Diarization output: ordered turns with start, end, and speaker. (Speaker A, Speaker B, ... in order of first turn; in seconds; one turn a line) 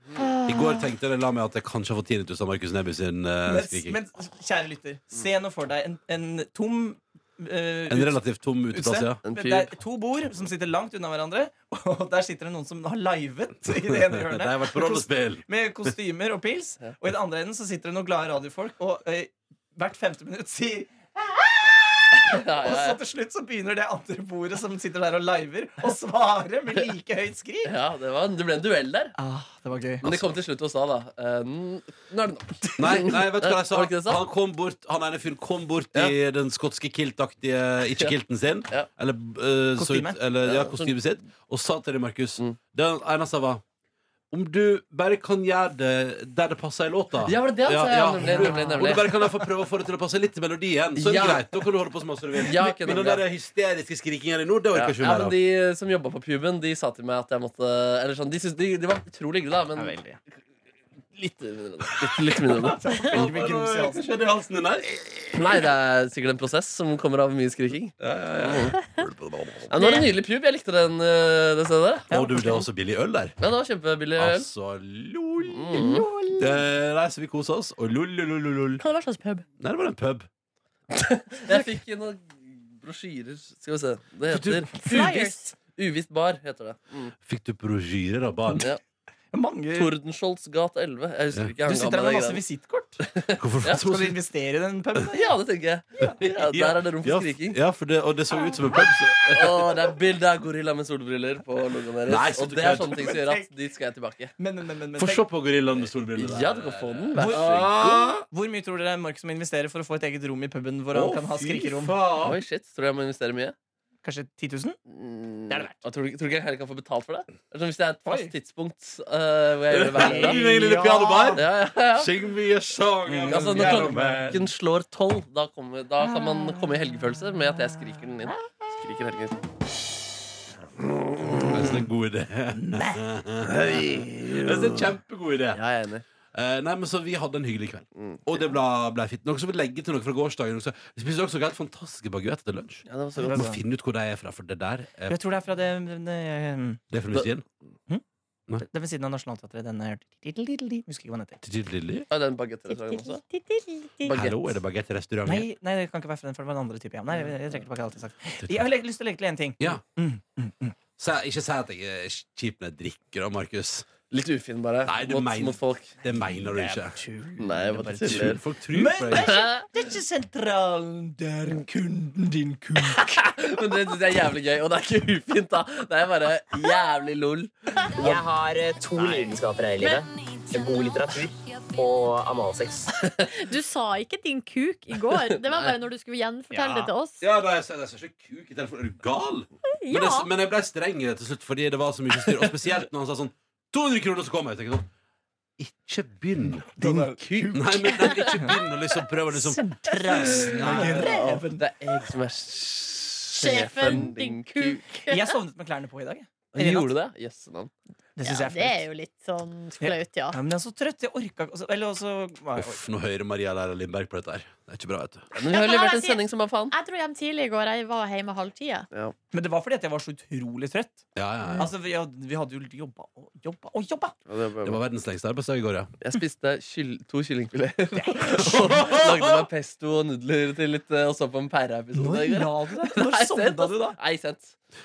Speaker A: 0.4-4.0
Speaker B: 3.5-27.7
Speaker A: 7.9-9.2
Speaker C: 9.2-9.7
Speaker A: 14.1-15.5
Speaker C: 22.3-23.0
Speaker C: 27.6-29.1
Speaker B: 29.1-30.0
Speaker C: 30.0-34.2
Speaker A: 30.0-30.3
Speaker A: 32.8-43.6
Speaker B: 39.8-40.2
Speaker C: 40.4-41.0
Speaker A: 44.3-55.4
Speaker C: 47.2-49.5
Speaker B: 48.3-48.8
Speaker C: 51.0-51.6
Speaker C: 52.4-53.3
Speaker C: 54.7-59.9
Speaker B: 59.8-60.2
Speaker C: 61.1-62.8
Speaker A: 62.0-62.5
Speaker B: 62.6-64.1
Speaker A: 63.1-65.6
Speaker C: 65.3-68.7
Speaker A: 68.0-69.7
Speaker C: 69.7-72.1
Speaker D: 69.8-70.1
Speaker B: 72.1-72.7
Speaker A: 72.1-73.4
Speaker C: 73.4-74.5
Speaker A: 74.2-78.8
Speaker C: 75.5-76.1
Speaker D: 75.7-76.6
Speaker D: 78.8-79.4
Speaker A: 79.6-80.3
Speaker C: 81.0-87.1
Speaker A: 84.3-84.8
Speaker D: 84.8-85.5
Speaker A: 87.2-88.7
Speaker B: 89.3-89.9
Speaker C: 89.7-92.4
Speaker B: 91.6-93.0
Speaker C: 93.1-93.8
Speaker A: 93.4-94.2
Speaker B: 93.8-95.2
Speaker C: 95.1-97.6
Speaker A: 96.0-99.8
Speaker C: 98.7-104.3
Speaker A: 102.0-103.0
Speaker B: 102.7-103.5
Speaker B: 104.4-105.3
Speaker A: 105.0-108.2
Speaker C: 106.1-107.9
Speaker B: 107.2-112.0
Speaker A: 110.9-112.4
Speaker C: 112.2-113.5
Speaker B: 114.0-114.8
Speaker C: 114.9-120.4
Speaker B: 115.5-115.8
Speaker B: 118.0-118.3
Speaker A: 119.7-124.5
Speaker B: 120.0-121.4
Speaker C: 121.3-122.1
Speaker B: 123.0-124.4
Speaker C: 123.2-129.4
Speaker C: 131.2-131.7
Speaker A: 131.4-135.6
Speaker B: 132.5-133.0
Speaker C: 133.4-134.9
Speaker C: 135.5-136.0
Speaker A: 136.3-145.2
Speaker C: 142.9-143.5
Speaker B: 143.2-143.6
Speaker B: 145.1-146.8
Speaker A: 146.9-147.4
Speaker B: 148.6-151.4
Speaker A: 151.4-152.1
Speaker C: 152.1-153.2
Speaker D: 152.7-154.2
Speaker C: 154.0-154.5
Speaker A: 154.1-155.5
Speaker B: 155.2-160.7
Speaker A: 161.0-163.9
Speaker C: 164.1-165.9
Speaker A: 164.8-167.0
Speaker B: 166.3-173.2
Speaker C: 167.4-168.4
Speaker A: 168.0-169.3
Speaker C: 169.2-169.7
Speaker C: 172.9-177.5
Speaker E: 177.9-182.9
Speaker B: 178.9-179.3
Speaker D: 179.8-180.1
Speaker D: 183.3-187.2
Speaker C: 185.3-185.8
Speaker B: 186.5-186.9
Speaker A: 187.2-194.9
Speaker D: 189.8-190.3
Speaker C: 192.2-192.6
Speaker A: 195.6-196.8
Speaker B: 196.8-198.5
Speaker C: 196.8-197.6
Speaker A: 197.5-199.6
Speaker D: 198.2-198.5
Speaker B: 199.3-201.6
Speaker A: 200.2-201.1
Speaker C: 200.4-204.8
Speaker D: 203.3-205.3
Speaker B: 205.0-206.9
Speaker C: 206.5-207.7
Speaker B: 208.2-208.9
Speaker D: 208.2-210.4
Speaker B: 209.8-212.8
Speaker A: 212.6-215.2
Speaker C: 215.3-216.7
Speaker D: 215.4-218.8
Speaker B: 219.3-221.0
Speaker A: 221.2-221.7
Speaker B: 221.6-224.1
Speaker C: 224.3-224.8
Speaker A: 224.6-225.9
Speaker C: 226.0-234.5
Speaker A: 228.5-229.4
Speaker B: 231.9-234.0